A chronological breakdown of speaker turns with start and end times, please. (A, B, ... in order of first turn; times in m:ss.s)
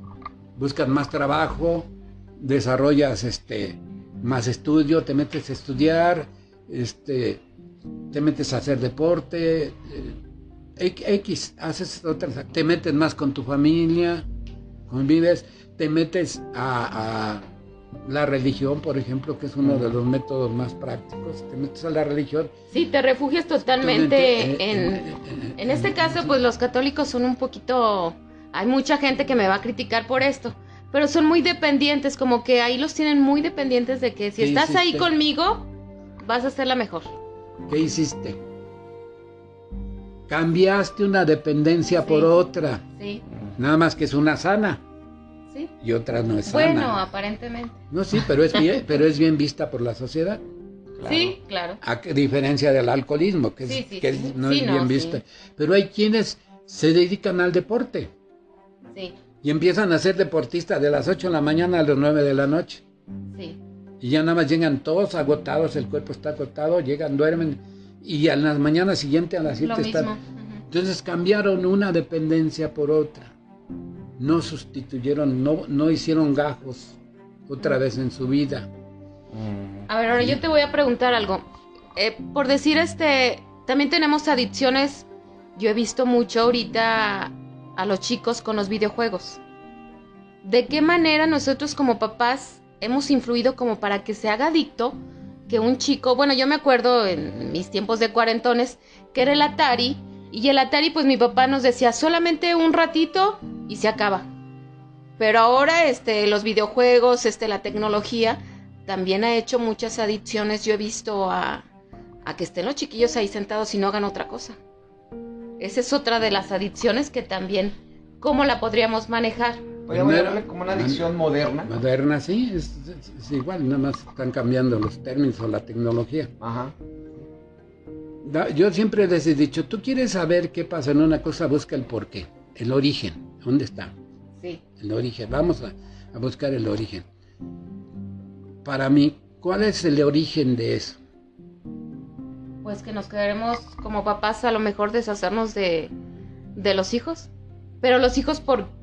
0:00.6-0:07.4 A
0:08.1-0:10.2 A
0:10.8-0:14.2 A
0:14.9-0:17.4 A
0:18.0-0:22.5 A
0:19.6-0:19.9 B
0:22.7-0:37.1 C
0:23.7-0:26.3 A
0:34.4-0:35.1 A
0:37.7-0:38.4 A
0:40.3-0:42.8 A
0:41.9-0:42.3 C
0:43.0-0:43.2 C
0:43.6-0:44.8 A
0:45.8-0:47.0 A
0:46.5-0:47.8 C
0:47.9-0:50.4 A
0:51.0-0:51.3 B
0:51.0-0:51.8 C
0:51.8-0:58.1 A
0:53.6-0:55.2 C
0:59.4-1:02.8 A
1:04.0-1:10.1 A
1:09.6-1:10.6 C
1:10.7-1:13.3 A
1:14.2-1:18.7 A
1:19.3-1:19.9 B
1:19.9-1:29.4 C
1:30.4-1:35.0 C
1:35.5-1:44.3 C
1:45.2-1:51.6 C
1:52.2-1:54.6 C
1:55.6-1:59.7 C
1:59.9-2:01.7 B
1:59.9-2:01.0 A
2:01.6-2:06.3 A
2:06.4-2:06.7 B
2:08.2-2:13.9 A
2:14.8-2:17.0 A
2:18.6-2:21.0 A
2:22.6-2:25.9 C
2:26.5-2:28.7 C